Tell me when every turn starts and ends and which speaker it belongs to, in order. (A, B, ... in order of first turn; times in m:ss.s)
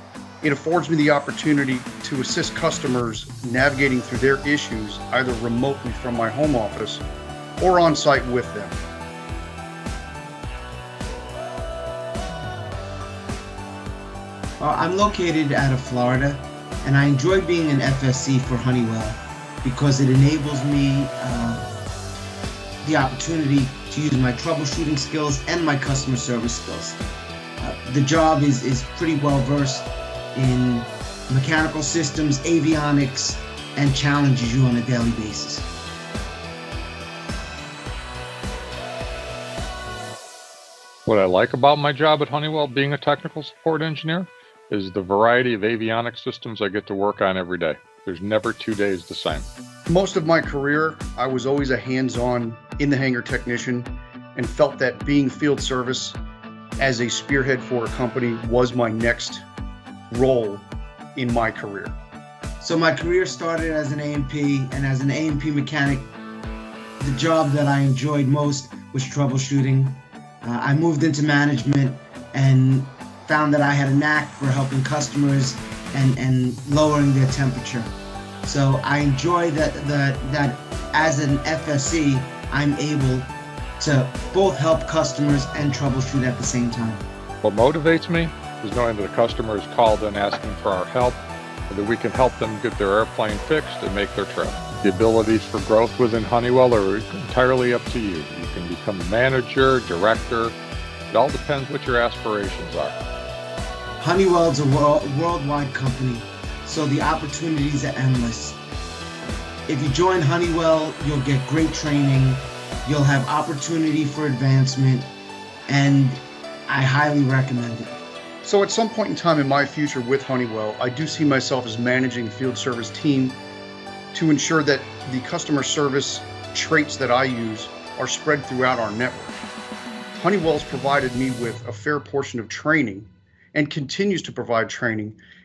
0:00.4-0:07.1 A
0:07.6-0:08.8 A
0:14.6-0:21.7 B
0:22.8-0:27.0 B
0:27.6-0:35.7 B
0:41.1-0:49.5 C
0:49.9-0:56.2 A
0:56.8-0:59.4 A
1:00.1-1:02.0 A
1:02.6-1:06.1 B
1:07.0-1:27.0 B
1:27.4-1:40.6 C
1:41.1-1:43.0 C
1:44.0-1:48.6 B
1:49.7-1:55.1 B
1:55.7-1:58.0 B
1:58.4-2:03.4 A
2:04.1-2:09.4 A
2:10.2-2:15.2 A